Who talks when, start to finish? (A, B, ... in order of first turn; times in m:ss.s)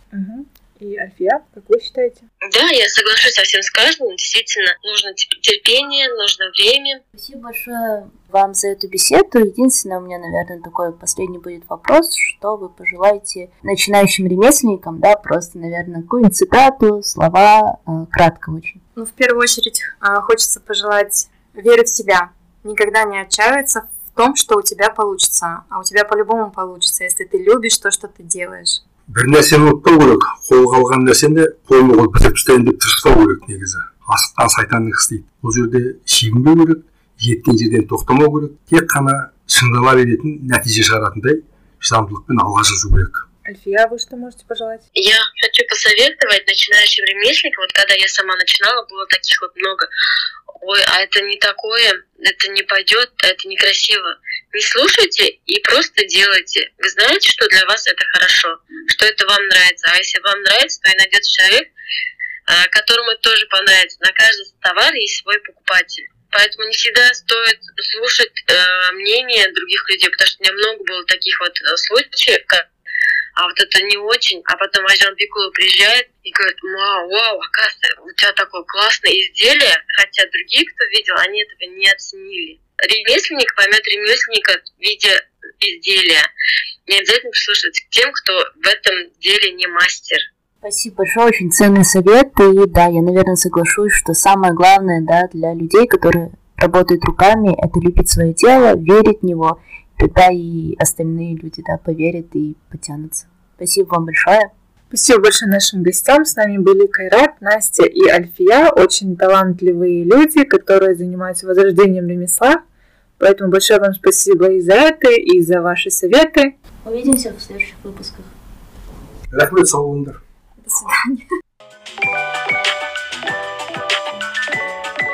0:00.1-0:02.3 A
0:02.4-0:07.0 B
0:07.2-0:18.8 C
0:19.0-0:28.8 D
0:29.1-0:43.3 E
0:43.4-0:44.9 A
0:45.0-0:49.9 B
0:50.6-1:01.7 B
1:02.5-1:12.6 B
1:13.4-1:26.3 B
1:26.9-1:30.3 B
1:30.6-1:44.5 C
1:44.9-1:52.6 A
1:53.2-1:56.5 A
1:56.8-1:58.3 C
1:59.3-2:00.2 E
2:00.6-2:01.3 D